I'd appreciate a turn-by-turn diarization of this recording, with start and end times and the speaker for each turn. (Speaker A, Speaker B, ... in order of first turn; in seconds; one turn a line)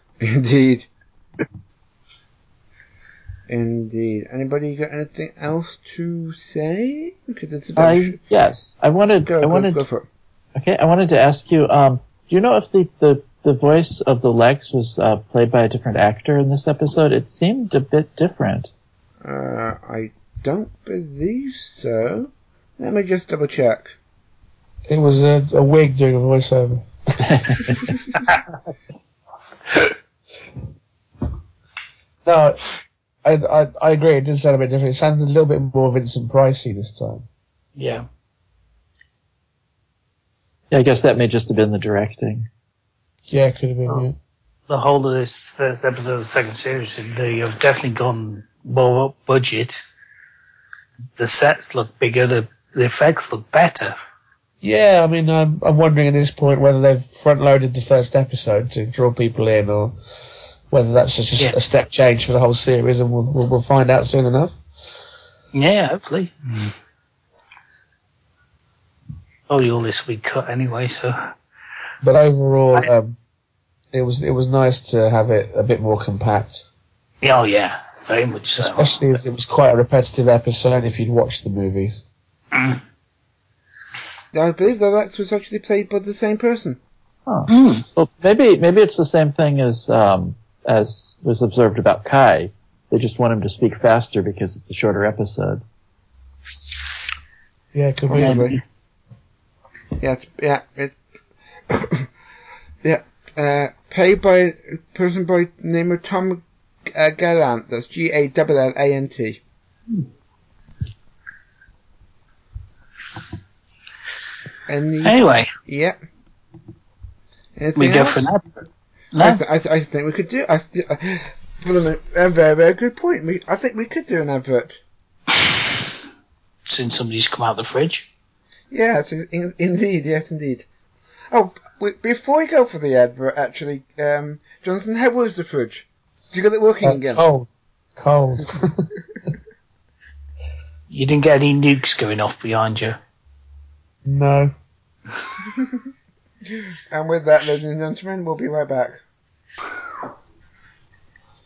Speaker A: 0.2-0.9
Speaker A: 3.5-8.2
Speaker B: 7.8-9.8
Speaker A: 9.2-10.1
Speaker B: 10.5-18.7
Speaker A: 19.2-23.9
Speaker C: 24.9-26.9
Speaker B: 27.2-27.7
Speaker C: 32.2-32.6
Speaker C: 33.2-37.2
Speaker D: 37.8-38.0
Speaker B: 40.7-42.5
Speaker C: 43.3-44.1
Speaker D: 44.7-49.9
Speaker D: 51.1-53.9
Speaker C: 54.6-60.0
Speaker C: 60.7-64.5
Speaker D: 65.5-66.7
Speaker D: 69.5-71.2
Speaker C: 72.0-73.2
Speaker C: 73.9-76.6
Speaker D: 77.2-79.0
Speaker C: 78.6-82.0
Speaker D: 82.5-82.8
Speaker A: 84.3-86.8
Speaker B: 87.3-95.6
Speaker D: 87.5-87.8
Speaker C: 97.7-98.5
Speaker A: 98.1-98.6
Speaker D: 98.2-98.6
Speaker A: 100.0-101.0
Speaker A: 101.7-102.0
Speaker A: 102.8-109.4
Speaker A: 114.7-116.0
Speaker D: 115.0-115.5
Speaker A: 117.5-118.3
Speaker D: 117.8-118.4
Speaker D: 119.1-119.4
Speaker A: 119.2-124.8
Speaker D: 126.7-128.1
Speaker A: 128.7-130.7
Speaker A: 131.3-137.2
Speaker C: 136.8-138.9
Speaker D: 140.9-143.0
Speaker C: 144.0-144.5
Speaker A: 146.9-149.0